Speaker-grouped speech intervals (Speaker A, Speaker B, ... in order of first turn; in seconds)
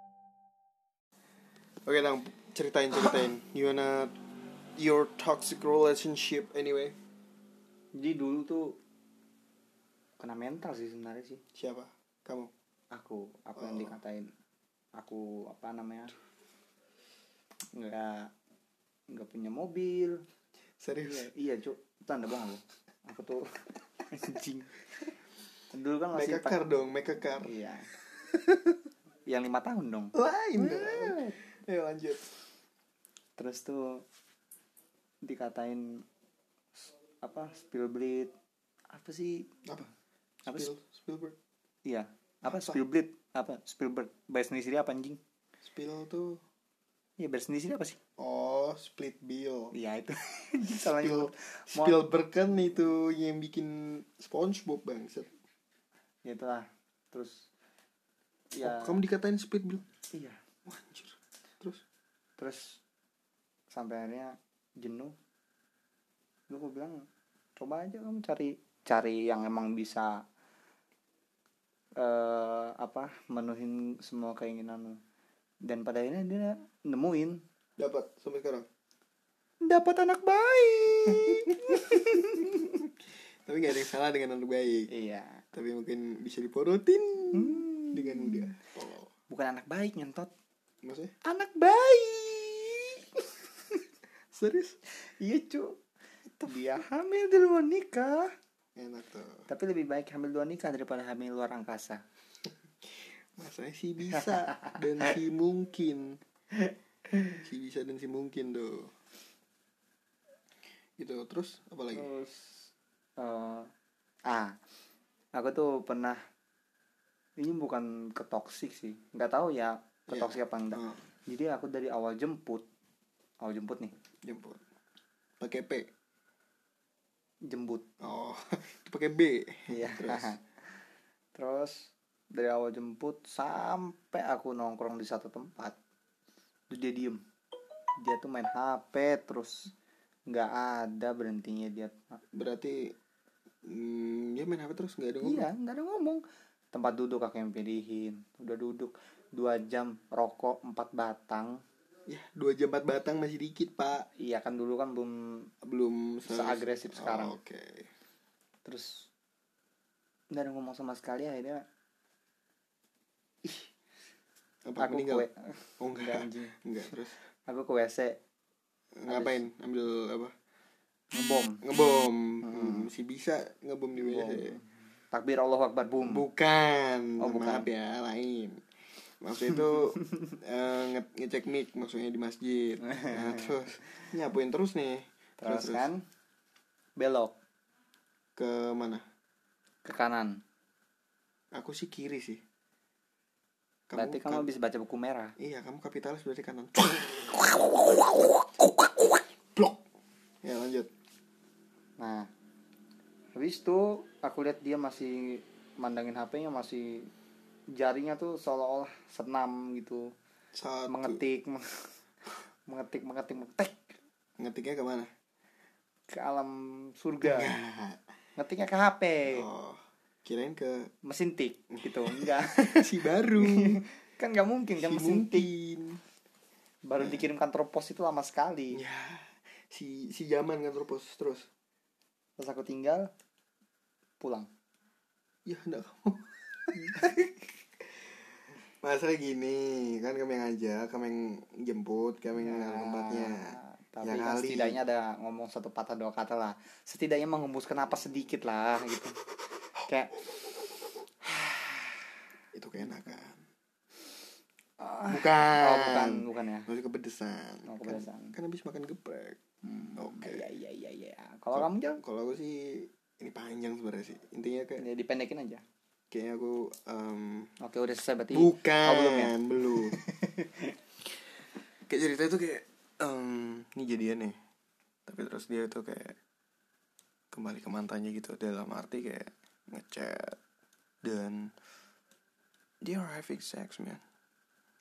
Speaker A: 1.9-4.2, 4.8-7.0, 11.6-12.5, 13.6-13.9, 20.8-21.3, 26.1-27.5, 30.1-32.3, 40.5-41.4, 42.5-42.8, 45.6-46.4, 48.2-49.8, 50.7-55.3, 58.6-59.8, 60.7-61.8, 77.8-78.7, 83.5-84.9, 85.5-89.1, 90.8-91.1, 94.3-94.8, 98.8-99.5, 102.8-106.2, 107.3-108.9, 111.0-112.1, 120.1-121.0, 124.2-124.6, 125.4-125.9, 128.0-130.3, 142.3-142.9, 143.7-145.5, 152.1-154.1, 155.6-157.9, 164.7-165.3, 165.8-167.2, 169.0-170.3, 171.6-174.6, 176.0-178.6, 179.2-185.9, 188.4-189.0, 191.5-192.4, 193.9-194.5, 195.4-197.6, 199.6-199.8, 200.4-200.9, 210.5-211.2, 214.4-215.1, 217.2-218.0, 219.3-220.9, 221.8-223.8, 224.8-226.0, 228.7-231.5, 235.5-238.1, 238.8-244.8, 251.4-251.8, 252.6-253.4, 255.1-259.4, 260.0-260.4, 261.6-264.9, 266.1-267.5, 268.3-270.0, 271.9-274.4, 275.1-276.2, 277.3-280.4, 281.0-281.5, 282.8-284.0
Speaker B: 8.0-8.8, 10.2-11.4, 12.9-14.3, 15.0-16.1, 17.7-18.3, 19.1-20.2, 21.0-24.8, 25.7-26.7, 27.4-27.9, 29.3-31.4, 33.4-34.0, 35.2-36.0, 36.8-38.3, 38.9-39.9, 41.9-45.2, 47.2-48.0, 49.7-52.0, 56.2-57.5, 58.5-59.0, 60.1-60.4, 62.4-62.8, 63.7-65.1, 66.5-67.0, 67.6-70.2, 72.0-75.0, 75.7-77.4, 79.7-82.8, 84.9-85.4, 87.3-88.5, 89.3-90.3, 91.2-93.8, 95.0-95.8, 96.5-98.3, 99.5-102.0, 111.9-113.7, 114.3-114.6, 115.3-116.2, 117.4-122.7, 123.4-123.9, 127.5-127.8, 129.7-130.4, 131.3-135.8, 136.7-137.2, 138.0-139.7, 140.3-142.2, 145.2-146.2, 146.7-151.6, 154.2-155.5, 156.3-157.3, 158.7-159.1, 160.3-161.6, 163.4-163.7, 164.8-166.6, 167.5-168.2, 169.1-169.4, 171.1-171.6, 172.4-172.9, 174.0-176.2, 177.2-177.7, 182.8-184.0, 185.4-186.0, 187.0-187.4, 189.8-190.4, 193.9-195.3, 197.4-199.1, 202.0-202.3, 203.4-207.1, 207.8-210.0, 210.9-211.9, 212.7-213.8, 216.1-217.5, 218.4-219.5, 221.1-225.5, 226.9-228.8, 232.4-233.1, 234.2-234.5, 242.3-249.2, 249.9-250.1, 254.8-256.7, 257.7-258.4, 259.6-262.0, 264.8-265.6, 267.6-270.8